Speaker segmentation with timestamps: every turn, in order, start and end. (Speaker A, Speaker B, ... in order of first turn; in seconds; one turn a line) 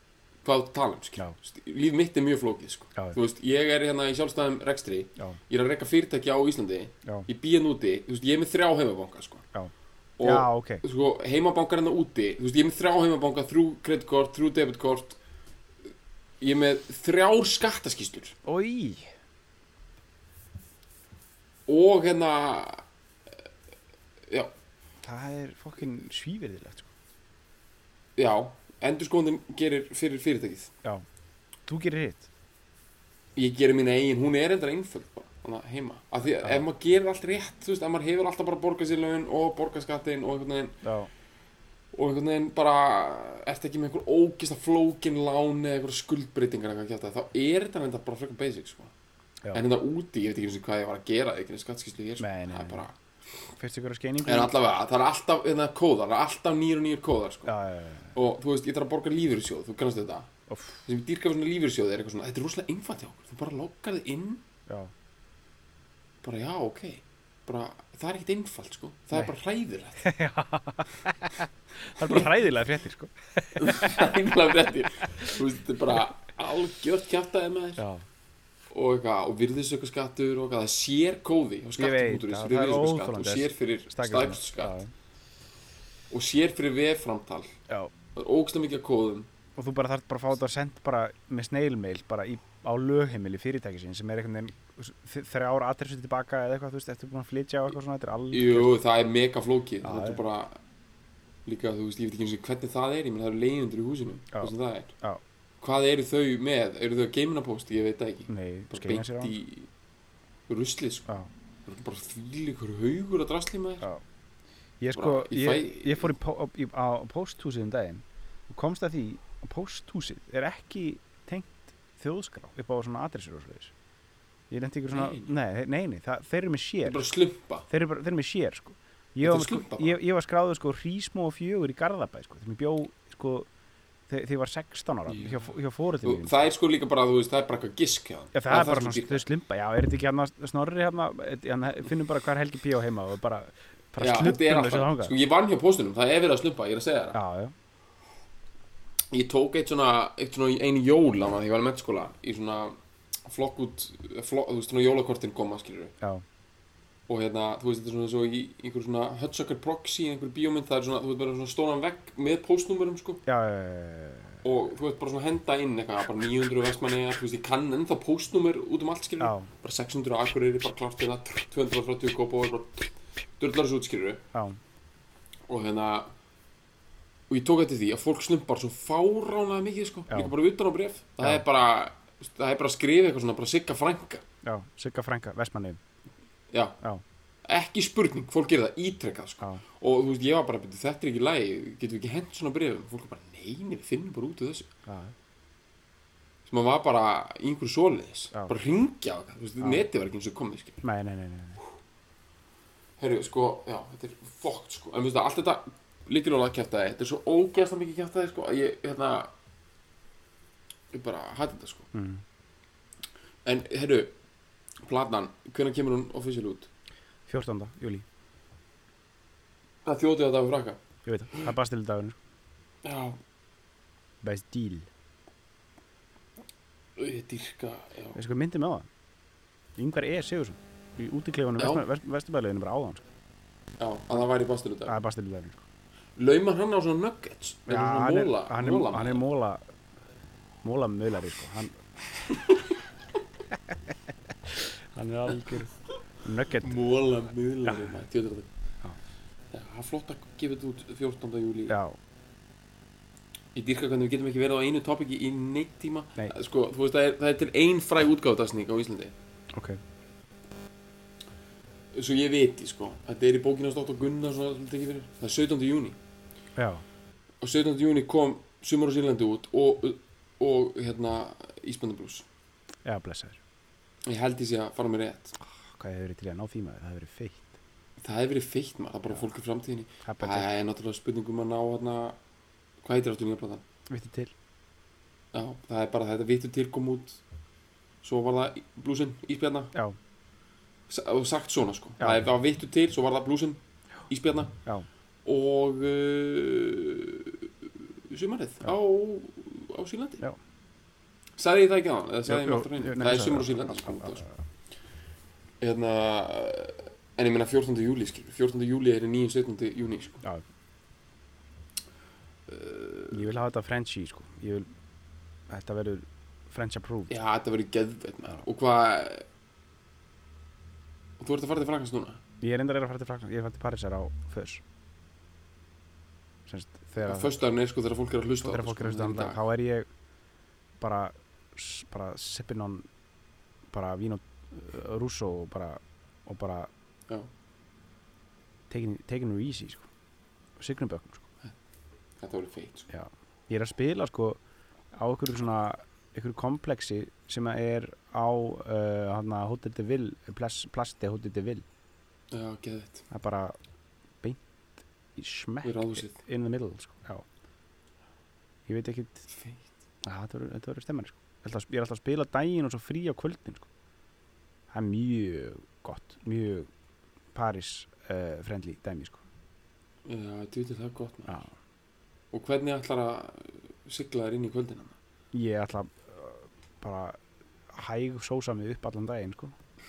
Speaker A: 0.4-9.4
Speaker B: 9.5-10.8
Speaker A: 10.2-15.2
Speaker A: 16.4-18.4
Speaker B: 18.4-19.1
Speaker A: 21.7-22.8
Speaker B: 25.0-26.9
Speaker A: 28.2-30.7
Speaker B: 31.6-32.2
Speaker A: 33.4-40.8
Speaker B: 40.8-41.1
Speaker A: 41.9-48.9
Speaker A: 49.5-52.9
Speaker B: 52.2-52.9
Speaker B: 53.6-54.5
Speaker A: 54.2-57.5
Speaker B: 57.5-58.1
Speaker A: 58.1-60.3
Speaker B: 60.5-60.8
Speaker A: 60.8-64.4
Speaker B: 64.7-64.9
Speaker A: 66.2-70.0
Speaker B: 70.0-74.1
Speaker A: 72.0-72.3
Speaker A: 73.5-77.8
Speaker B: 77.8-78.0
Speaker A: 78.7-84.8
Speaker B: 81.8-84.9
Speaker A: 86.1-87.5
Speaker A: 88.1-89.3
Speaker B: 89.5-98.8
Speaker A: 98.3-100.6
Speaker B: 99.8-100.2
Speaker A: 101.4-104.9
Speaker B: 104.3-105.2
Speaker A: 105.6-109.7
Speaker B: 108.3-109.4
Speaker A: 110.5-111.1
Speaker A: 111.7-113.9
Speaker B: 114.8-123.7
Speaker A: 114.9-116.1
Speaker B: 124.5-127.1
Speaker A: 124.9-125.3
Speaker A: 126.8-127.7
Speaker B: 127.7-133.5
Speaker A: 129.2-130.0
Speaker B: 134.1-136.3
Speaker A: 135.1-135.5
Speaker A: 136.0-139.2
Speaker B: 138.3-145.1
Speaker A: 144.0-147.2
Speaker B: 147.1-147.5
Speaker A: 149.1-155.9
Speaker A: 157.1-163.2
Speaker B: 163.2-164.4
Speaker A: 164.4-174.2
Speaker B: 169.2-169.5
Speaker B: 174.3-174.6
Speaker A: 175.5-176.1
Speaker A: 177.3-184.2
Speaker B: 180.1-180.3
Speaker B: 184.4-185.8
Speaker A: 186.5-186.8
Speaker A: 187.5-194.7
Speaker B: 194.8-195.1
Speaker A: 196.5-200.8
Speaker B: 199.6-199.8
Speaker B: 200.8-201.6
Speaker A: 203.0-209.3
Speaker A: 210.9-211.9
Speaker B: 211.9-212.2
Speaker A: 213.4-214.1
Speaker A: 214.8-216.7
Speaker B: 217.3-218.0
Speaker A: 219.8-220.8
Speaker B: 221.0-222.2
Speaker A: 222.8-223.2
Speaker B: 224.2-224.9
Speaker A: 227.0-228.2
Speaker B: 228.1-228.9
Speaker B: 229.8-233.0
Speaker A: 231.6-231.8
Speaker A: 233.8-235.0
Speaker B: 234.9-235.6
Speaker A: 236.2-239.2
Speaker B: 237.7-239.6
Speaker B: 240.6-241.8
Speaker A: 242.3-242.6
Speaker B: 244.5-245.7
Speaker A: 245.3-245.7
Speaker B: 246.2-246.8
Speaker A: 246.6-248.5
Speaker A: 249.5-251.8
Speaker B: 251.7-252.0
Speaker A: 253.5-259.1
Speaker B: 259.5-259.8
Speaker A: 261.9-266.0
Speaker B: 266.6-266.8
Speaker A: 267.4-272.2
Speaker B: 272.8-273.4
Speaker A: 274.1-275.3
Speaker B: 275.4-277.5
Speaker A: 278.0-282.2
Speaker B: 280.0-280.5
Speaker A: 282.8-283.6
Speaker B: 283.9-284.3
Speaker A: 285.3-287.2
Speaker A: 288.0-289.7
Speaker A: 290.9-294.6
Speaker A: 295.2-297.3
Speaker A: 298.1-300.2
Speaker A: 301.4-304.2
Speaker B: 302.2-304.4
Speaker A: 305.6-310.2
Speaker A: 312.5-313.2
Speaker B: 313.1-314.7
Speaker B: 315.5-317.2
Speaker A: 317.1-319.2
Speaker A: 321.2-322.2
Speaker B: 322.4-324.6
Speaker B: 326.5-327.3
Speaker A: 327.0-329.4
Speaker B: 328.4-329.9
Speaker B: 330.8-332.9
Speaker B: 333.7-336.7
Speaker B: 338.7-339.9
Speaker B: 340.6-341.3
Speaker A: 342.2-342.9
Speaker B: 342.9-344.4
Speaker B: 344.9-351.6
Speaker A: 352.3-353.0
Speaker B: 353.1-353.6
Speaker B: 355.1-357.2
Speaker A: 355.6-356.2
Speaker B: 358.7-359.2
Speaker A: 359.3-359.7
Speaker B: 360.0-363.7
Speaker B: 364.7-366.7
Speaker B: 367.3-369.2
Speaker A: 370.1-371.4
Speaker B: 371.3-371.5
Speaker A: 372.3-374.9
Speaker B: 375.3-377.2
Speaker B: 377.7-379.5